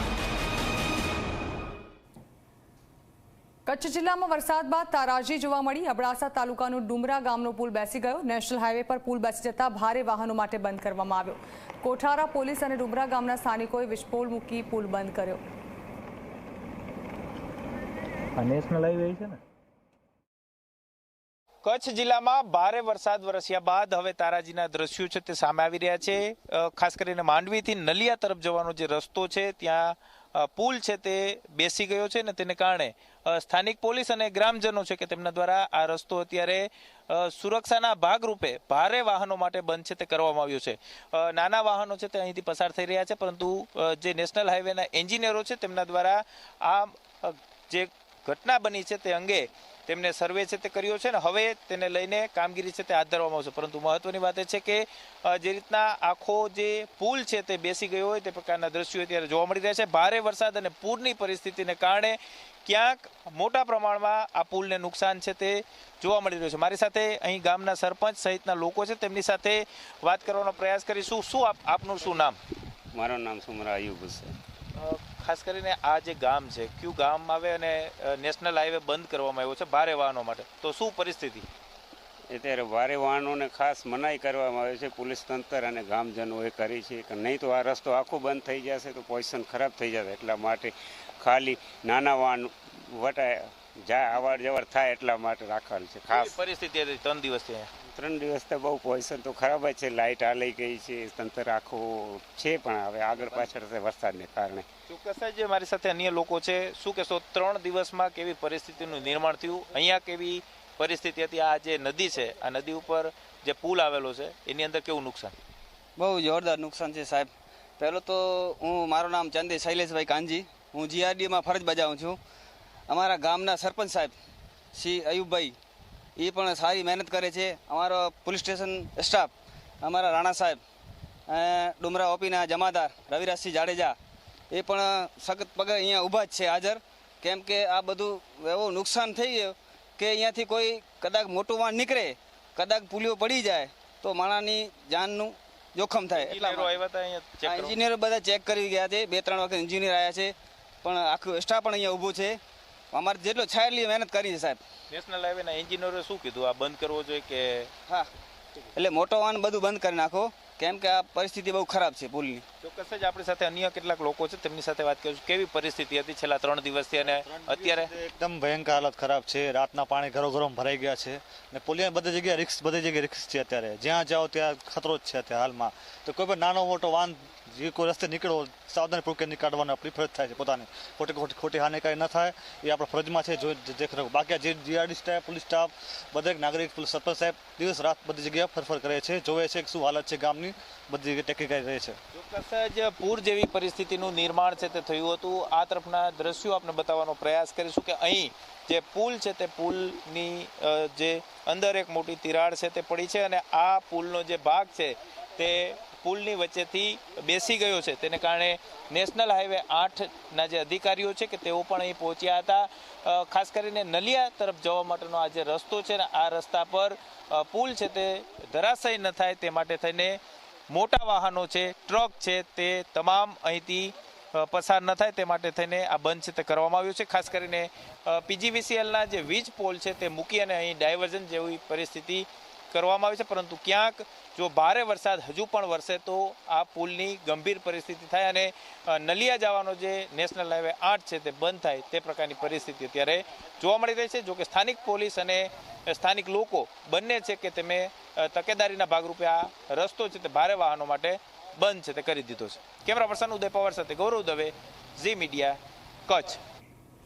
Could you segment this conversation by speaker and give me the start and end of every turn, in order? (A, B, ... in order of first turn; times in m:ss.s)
0:03.7-0:15.4 A
0:18.4-0:19.4 B
0:21.6-1:12.4 B
1:12.9-1:14.4 C
1:14.7-1:21.5 B
1:22.3-1:36.4 C
1:36.1-1:37.7 B
1:37.9-1:44.6 C
1:44.9-1:55.4 B
1:56.0-2:02.2 D
2:02.9-2:04.1 D
2:04.7-2:05.6 D
2:06.2-2:10.6 D
2:11.3-2:14.0 D
2:14.5-2:26.8 D
2:26.1-2:27.8 B
2:27.4-2:32.4 D
2:32.9-2:34.6 D
2:34.9-2:37.7 B
2:38.8-2:42.4 D
2:42.6-2:47.9 B
2:47.0-3:12.0 E
3:12.1-3:40.2 B
3:40.7-4:16.4 B